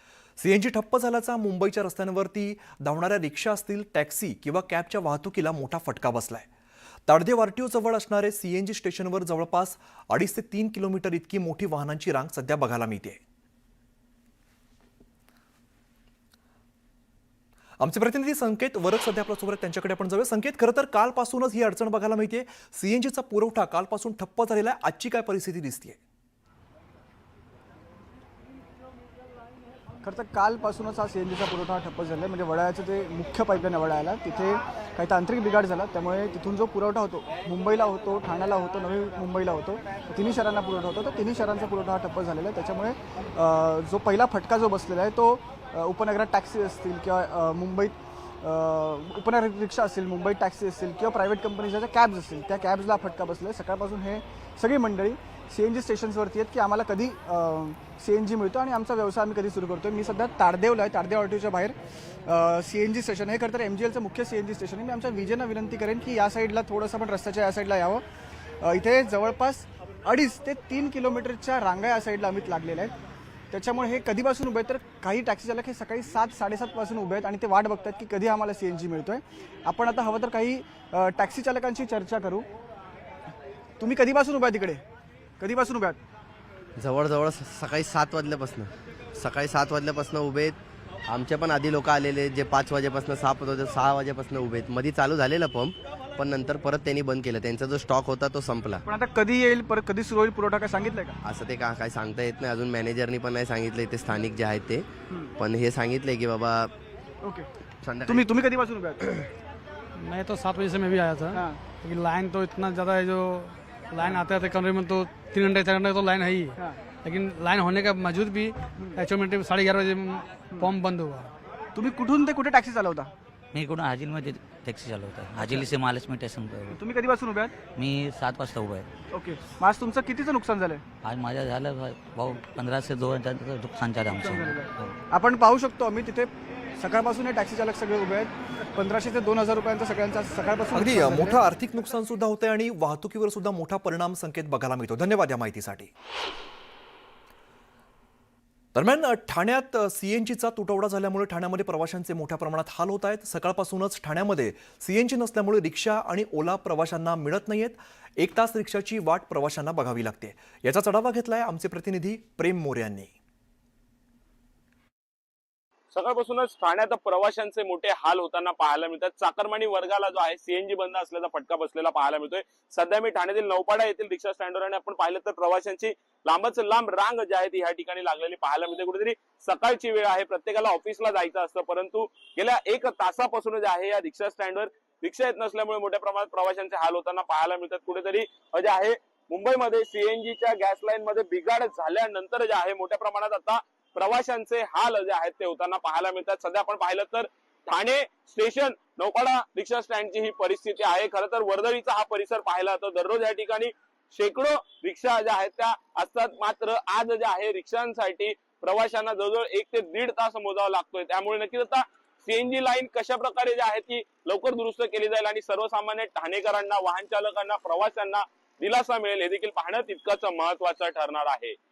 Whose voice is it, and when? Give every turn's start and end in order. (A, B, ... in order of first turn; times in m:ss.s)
0:00.4-0:06.5 A
0:07.1-0:13.2 A
0:17.8-0:26.0 A
0:30.0-1:01.8 B
1:02.3-1:08.0 B
1:08.6-1:13.0 B
1:13.5-1:22.5 B
1:23.8-1:24.8 B
1:25.4-1:26.0 B
1:26.8-1:30.6 C
1:31.1-1:38.8 C
1:38.8-1:41.2 B
1:41.2-1:44.9 C
1:45.4-1:46.7 C
1:47.2-1:47.5 B
1:47.8-1:48.3 C
1:48.1-1:49.0 B
1:50.0-2:01.3 D
1:51.3-1:51.6 B
2:01.8-2:03.1 B
2:03.5-2:06.8 E
2:06.7-2:07.5 B
2:07.8-2:08.9 E
2:09.1-2:10.8 B
2:11.0-2:15.0 E
2:14.2-2:21.4 B
2:20.8-2:25.9 A
2:28.8-2:43.2 A
2:45.9-3:41.6 F